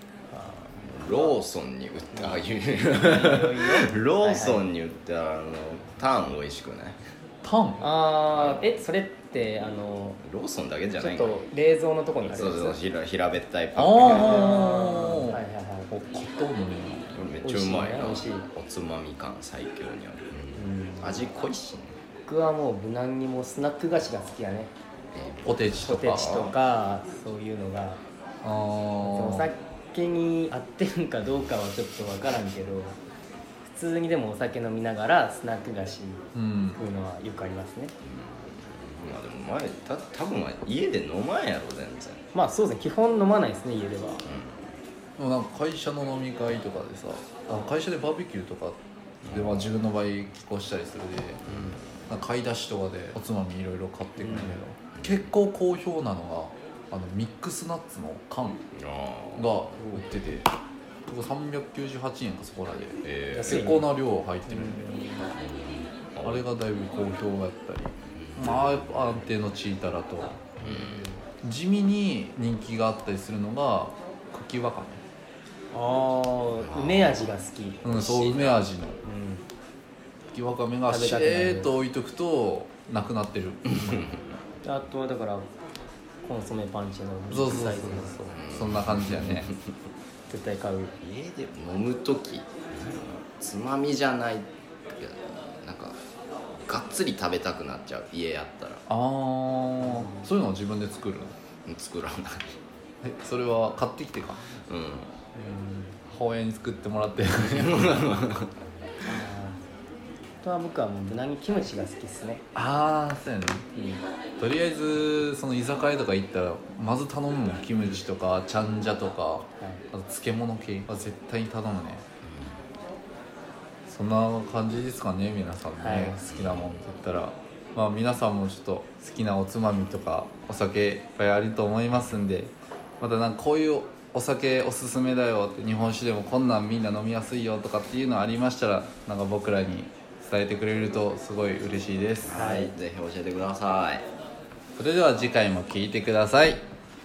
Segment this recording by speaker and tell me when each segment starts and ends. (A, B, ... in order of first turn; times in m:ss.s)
0:00.3-0:01.3 A
0:00.8-0:07.0 B
0:02.1-0:04.6 A
0:07.4-0:07.9 C
0:07.8-0:10.2 A
0:08.3-0:08.8 B
0:10.2-0:11.4 B
0:11.0-0:12.8 A
0:12.3-0:14.5 B
0:13.8-0:17.2 C
0:14.1-0:15.9 A
0:17.1-0:21.9 B
0:17.4-0:18.5 A
0:20.6-0:21.3 A
0:22.3-0:24.7 A
0:25.1-0:26.5 B
0:25.4-0:26.4 C
0:25.8-0:28.0 A
0:28.4-0:29.5 C
0:29.0-0:33.0 A
0:33.6-0:37.9 A
0:36.3-0:36.8 C
0:38.0-0:42.2 B
0:42.3-0:44.2 A
0:44.2-0:44.7 B
0:45.2-0:58.7 C
0:49.3-0:49.7 B
0:51.4-0:51.8 B
0:54.2-0:54.6 A
0:54.9-0:55.4 B
0:58.8-0:59.7 B
0:59.4-1:00.5 C
0:59.8-1:00.0 A
1:01.1-1:05.0 C
1:03.0-1:03.8 B
1:03.3-1:03.9 A
1:04.5-1:05.3 A
1:05.3-1:06.5 B
1:06.2-1:10.6 C
1:08.1-1:09.2 B
1:10.6-1:11.1 B
1:10.7-1:11.2 A
1:11.4-1:15.0 C
1:15.7-1:19.4 A
1:16.6-1:17.4 B
1:17.8-1:19.0 C
1:20.3-1:24.1 C
1:20.9-1:21.7 A
1:23.9-1:24.2 B
1:24.6-1:25.5 A
1:26.2-1:28.2 A
1:27.3-1:29.5 C
1:28.3-1:29.6 B
1:30.3-1:30.9 A
1:31.0-1:36.0 B
1:36.6-1:38.8 B
1:38.9-1:41.4 C
1:39.8-1:40.3 A
1:41.7-1:42.6 B
1:43.0-1:44.5 C
1:44.7-1:45.1 B
1:45.4-1:46.0 A
1:46.1-1:48.1 C
1:47.4-1:48.5 B
1:49.1-1:49.6 A
1:50.4-1:52.4 A
1:52.6-1:53.6 C
1:53.8-1:54.0 A
1:54.4-2:02.0 C
2:02.2-2:02.6 B
2:03.9-2:22.4 C
2:05.8-2:06.2 A
2:06.3-2:06.8 B
2:22.3-2:24.0 B
2:22.3-2:22.7 A
2:24.8-2:26.6 C